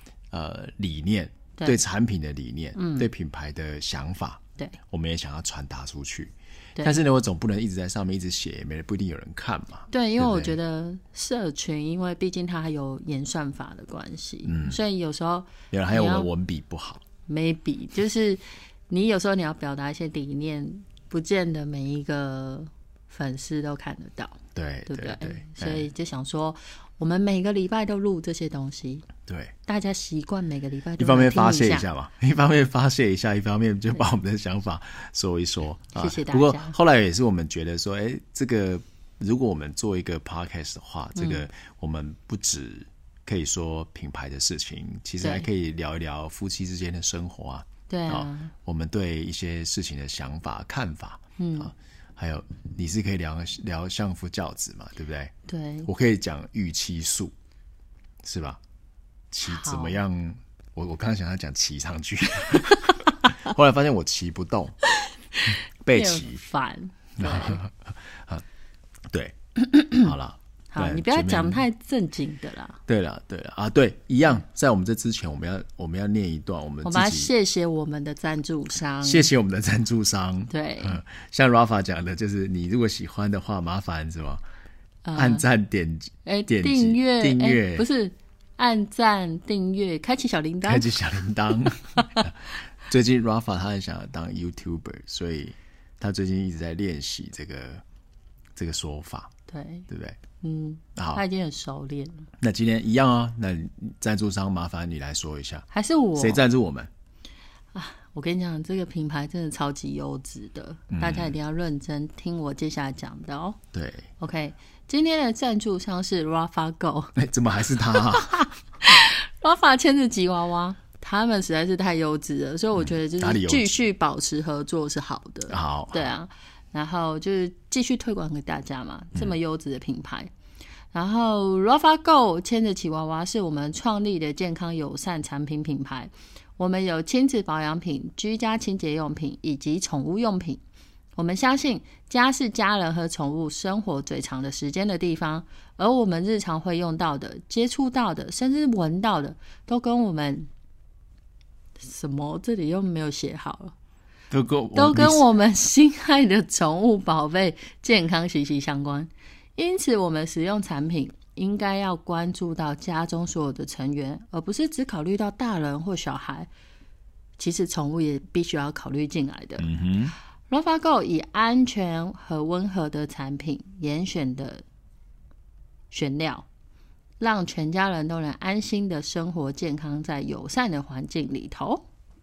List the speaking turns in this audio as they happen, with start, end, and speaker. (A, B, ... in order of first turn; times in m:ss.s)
0:00.3-0:10.6 A
0:02.7-0:03.1 B
0:09.9-0:16.3 B
0:14.4-0:14.8 A
0:15.7-0:17.0 A
0:17.3-0:29.1 B
0:24.5-0:25.9 A
0:29.3-0:29.5 A
0:29.6-0:31.9 B
0:31.0-0:55.3 A
0:35.9-0:36.8 B
0:41.2-0:41.4 B
0:45.2-0:45.5 B
0:47.9-0:48.5 B
0:51.4-0:51.7 B
0:55.5-0:55.9 B
0:55.8-0:57.3 A
0:58.2-0:58.6 A
0:59.3-1:04.8 A
0:59.4-1:00.0 B
1:05.3-1:07.6 B
1:05.8-1:06.4 A
1:07.2-1:08.4 A
1:09.1-1:09.3 A
1:09.6-1:10.1 B
1:09.9-1:11.6 A
1:10.7-1:12.8 B
1:12.9-1:17.3 A
1:16.8-1:19.3 B
1:19.0-1:24.4 A
1:20.5-1:21.0 B
1:25.0-1:25.4 B
1:25.1-1:27.9 A
1:26.2-1:30.9 B
1:30.6-1:37.8 A
1:32.0-1:32.3 B
1:38.6-1:39.3 A
1:39.5-1:39.9 B
1:39.9-1:40.2 A
1:40.4-1:42.3 B
1:41.0-1:41.2 A
1:42.4-1:45.6 A
1:45.7-1:46.4 B
1:46.2-1:46.9 A
1:47.7-1:53.6 B
1:50.9-1:51.3 A
1:53.7-1:54.1 A
1:54.2-1:57.1 B
1:57.1-1:58.5 A
1:58.8-2:10.3 B
2:02.8-2:03.8 A
2:05.5-2:06.1 A
2:10.9-2:20.6 B
2:21.2-2:30.5 B
2:31.8-2:33.7 B
2:34.3-2:35.2 A
2:34.7-2:46.5 B
2:47.4-2:49.7 B
2:49.6-2:50.2 A
2:50.5-2:54.6 B
2:55.9-2:56.4 B
2:57.2-3:01.8 B